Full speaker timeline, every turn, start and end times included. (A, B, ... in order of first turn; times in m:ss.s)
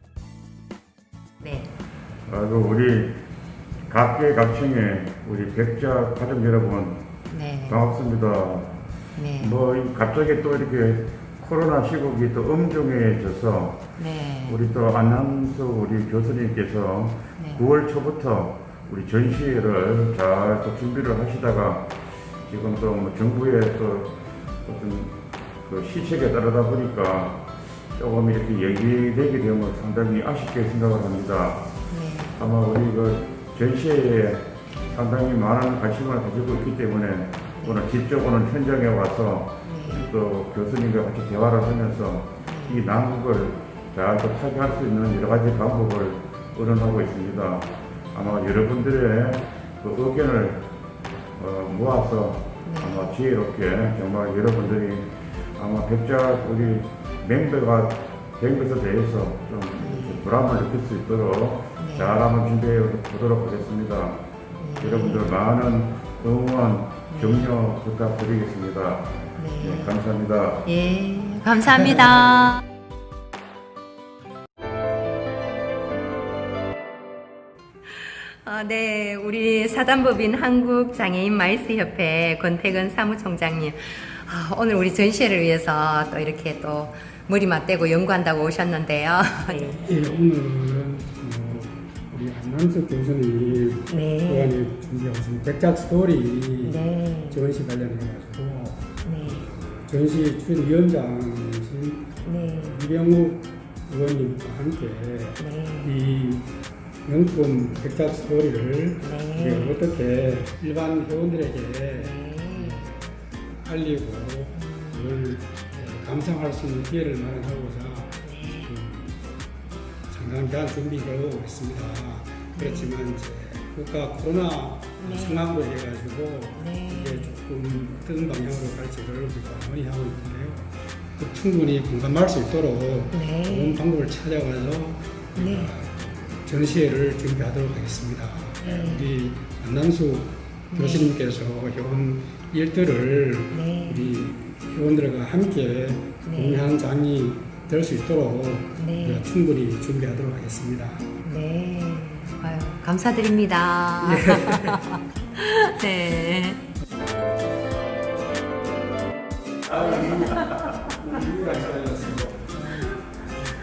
0:01.4-0:01.7 A
0:02.3-0:03.2 B
0:03.9-0:07.0 B
0:07.3-0:07.8 A
0:07.7-0:08.8 B
0:09.2-0:09.6 A
0:09.4-0:13.8 B
0:14.0-0:14.6 A
0:14.5-0:31.6 B
0:17.4-0:17.7 A
0:31.9-0:32.4 A
0:32.4-0:50.7 B
0:37.6-0:37.9 A
0:39.6-0:40.1 A
0:42.5-0:42.9 A
0:51.4-1:04.2 B
0:52.6-0:53.2 A
0:59.8-1:00.3 A
1:01.8-1:02.2 A
1:04.6-1:05.3 A
1:04.8-1:10.7 B
1:07.1-1:07.5 A
1:09.4-1:09.9 A
1:10.6-1:12.6 A
1:18.0-1:29.8 A
1:29.5-1:46.5 C
1:33.9-1:34.6 A
1:36.6-1:37.4 A
1:39.0-1:39.5 A
1:42.2-1:42.8 A
1:45.4-1:46.0 A
1:47.1-1:59.2 C
1:49.0-1:49.8 A
1:51.9-1:52.9 A
1:54.6-1:55.2 A
1:58.2-1:58.7 A
2:00.1-2:31.1 C
2:02.6-2:02.9 A
2:05.0-2:05.5 A
2:06.6-2:07.3 A
2:13.1-2:13.8 A
2:15.4-2:15.7 A
2:18.6-2:19.1 A
2:20.7-2:21.2 A
2:23.5-2:24.1 A
2:26.2-2:26.7 A
2:28.8-2:29.3 A
2:31.2-2:36.6 A
2:34.0-2:34.9 C
2:39.7-2:40.9 A
2:39.8-2:40.3 C
2:39.9-2:40.5 B
2:40.9-2:42.9 C